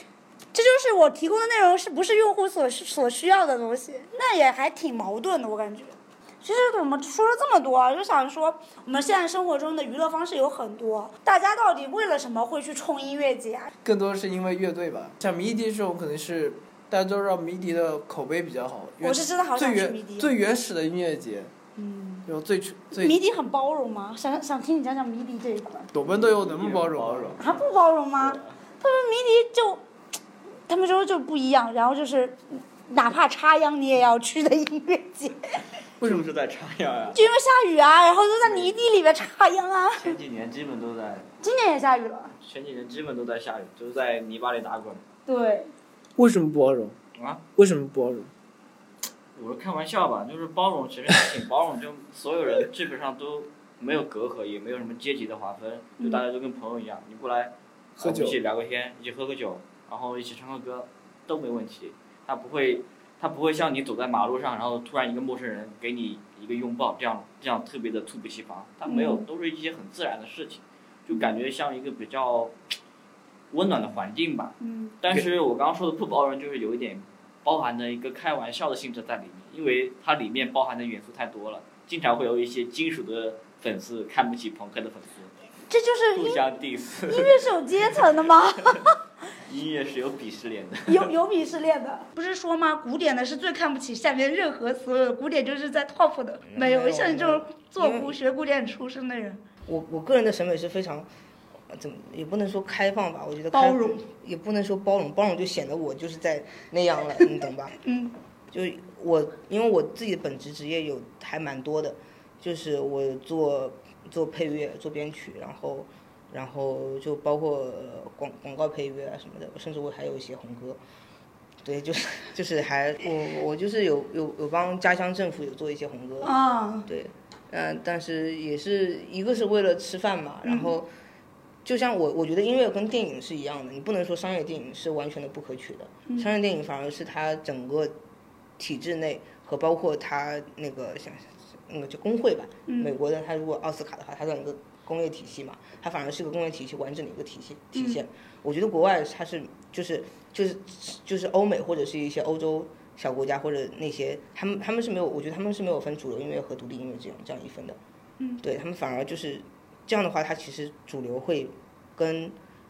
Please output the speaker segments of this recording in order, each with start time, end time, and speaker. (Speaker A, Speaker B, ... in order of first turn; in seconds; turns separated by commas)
Speaker A: 0.5-13.7, Speaker B: 13.8-21.5, Speaker A: 19.0-20.3, Speaker A: 21.8-22.3, Speaker B: 22.3-23.2, Speaker A: 22.9-25.9, Speaker B: 25.9-27.4, Speaker C: 26.0-27.7, Speaker A: 27.4-29.8, Speaker C: 28.2-28.6, Speaker A: 30.7-35.4, Speaker C: 36.0-37.2, Speaker B: 36.0-36.3, Speaker A: 37.1-40.2, Speaker C: 38.4-38.8, Speaker C: 40.0-41.3, Speaker A: 41.4-42.3, Speaker C: 42.4-45.1, Speaker A: 45.3-45.7, Speaker B: 46.2-47.0, Speaker C: 47.1-47.4, Speaker B: 47.5-48.3, Speaker C: 49.4-72.5, Speaker B: 58.0-58.4, Speaker A: 68.8-69.3, Speaker C: 73.5-85.3, Speaker A: 74.6-75.0, Speaker A: 85.7-86.4, Speaker C: 86.1-88.1, Speaker A: 87.1-88.9, Speaker C: 89.4-91.1, Speaker A: 90.9-99.4, Speaker D: 96.4-98.2, Speaker D: 99.6-101.1, Speaker D: 101.7-107.8, Speaker A: 103.5-104.0, Speaker A: 107.8-108.1, Speaker D: 108.5-120.8, Speaker D: 121.6-126.3, Speaker A: 126.2-126.9, Speaker D: 126.9-130.9, Speaker A: 130.4-130.7, Speaker D: 131.6-137.9, Speaker D: 138.6-157.8, Speaker A: 142.7-142.9, Speaker A: 147.7-148.0, Speaker D: 158.4-162.4